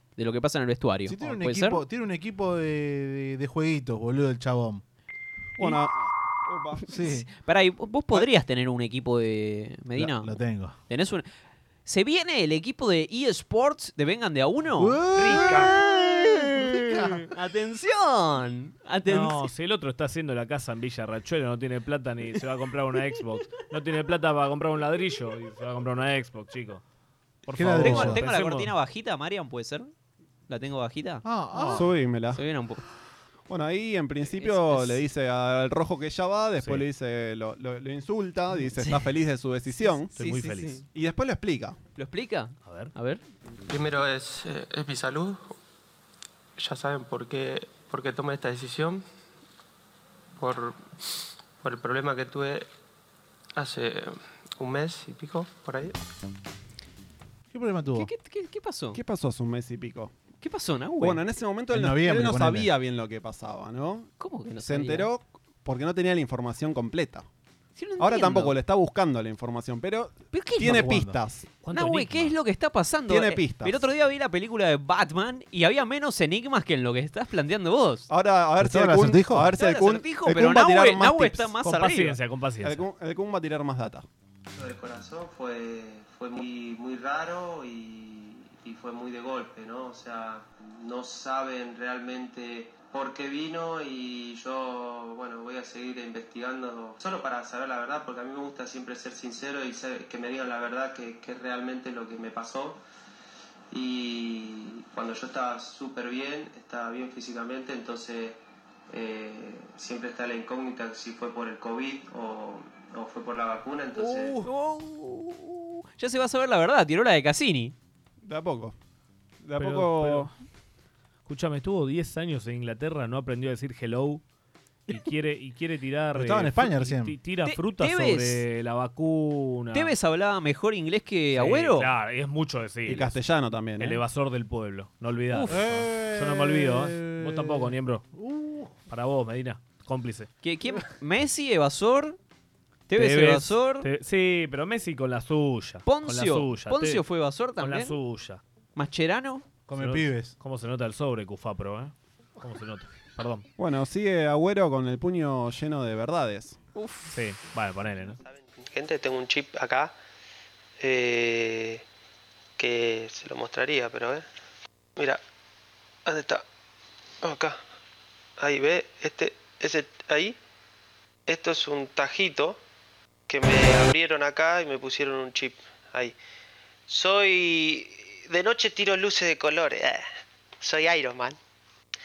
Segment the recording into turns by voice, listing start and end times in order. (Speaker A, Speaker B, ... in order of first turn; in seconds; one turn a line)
Speaker A: 0.2-1.8
Speaker B: 1.1-4.8
Speaker C: 5.6-6.8
Speaker A: 6.9-10.4
Speaker B: 6.9-7.2
Speaker B: 10.0-10.8
Speaker A: 10.9-11.3
Speaker A: 11.8-19.5
Speaker B: 14.8-15.7
Speaker B: 16.6-17.2
Speaker D: 19.1-26.8
Speaker D: 27.4-28.7
Speaker B: 27.5-28.2
Speaker A: 27.8-29.9
Speaker A: 30.5-32.8
Speaker B: 31.2-31.9
Speaker C: 31.7-32.4
Speaker C: 33.5-40.3
Speaker A: 34.3-35.0
Speaker A: 38.8-39.0
Speaker D: 40.1-40.8
Speaker C: 40.9-41.8
Speaker A: 42.0-43.2
Speaker D: 42.6-42.9
Speaker E: 43.7-45.5
Speaker E: 46.6-49.0
Speaker E: 50.4-50.9
Speaker E: 51.6-52.7
Speaker E: 53.5-56.0
Speaker B: 57.5-58.1
Speaker A: 57.9-59.0
Speaker C: 58.9-60.1
Speaker A: 60.4-61.2
Speaker C: 61.0-67.2
Speaker B: 61.7-62.7
Speaker A: 64.2-65.1
Speaker A: 67.8-68.5
Speaker C: 68.0-71.5
Speaker A: 70.3-70.9
Speaker B: 70.9-71.2
Speaker D: 71.6-72.3
Speaker A: 71.7-78.1
Speaker C: 73.1-73.8
Speaker C: 78.1-81.5
Speaker B: 78.6-79.5
Speaker A: 79.5-82.2
Speaker D: 81.6-82.9
Speaker C: 82.6-84.0
Speaker E: 84.5-102.8
Speaker E: 103.7-114.4
Speaker A: 114.0-117.7
Speaker C: 118.2-118.7
Speaker C: 119.4-120.3
Speaker D: 119.6-120.3
Speaker D: 121.2-124.2
Speaker D: 124.9-129.9
Speaker B: 126.1-127.2
Speaker A: 127.5-128.4
Speaker A: 129.7-131.9
Speaker D: 131.3-133.2
Speaker C: 132.8-134.0
Speaker D: 133.8-138.1
Speaker A: 135.3-135.6
Speaker B: 135.4-138.8
Speaker D: 138.9-140.3
Speaker A: 140.4-142.2
Speaker A: 142.9-143.9
Speaker D: 142.9-147.0
Speaker A: 145.8-147.9
Speaker D: 147.6-148.4
Speaker A: 148.8-149.4
Speaker B: 149.7-150.3
Speaker D: 149.8-153.5
Speaker C: 153.6-156.6
Speaker A: 156.8-157.1
Speaker D: 157.1-158.2
Speaker E: 158.2-159.9
Speaker E: 160.8-161.8
Speaker E: 162.6-164.3
Speaker E: 164.9-165.2
Speaker E: 166.1-166.4
Speaker E: 167.2-167.6
Speaker E: 168.4-170.4
Speaker E: 171.3-172.6
Speaker E: 173.3-176.2
Speaker E: 176.9-180.1
Speaker E: 180.6-181.4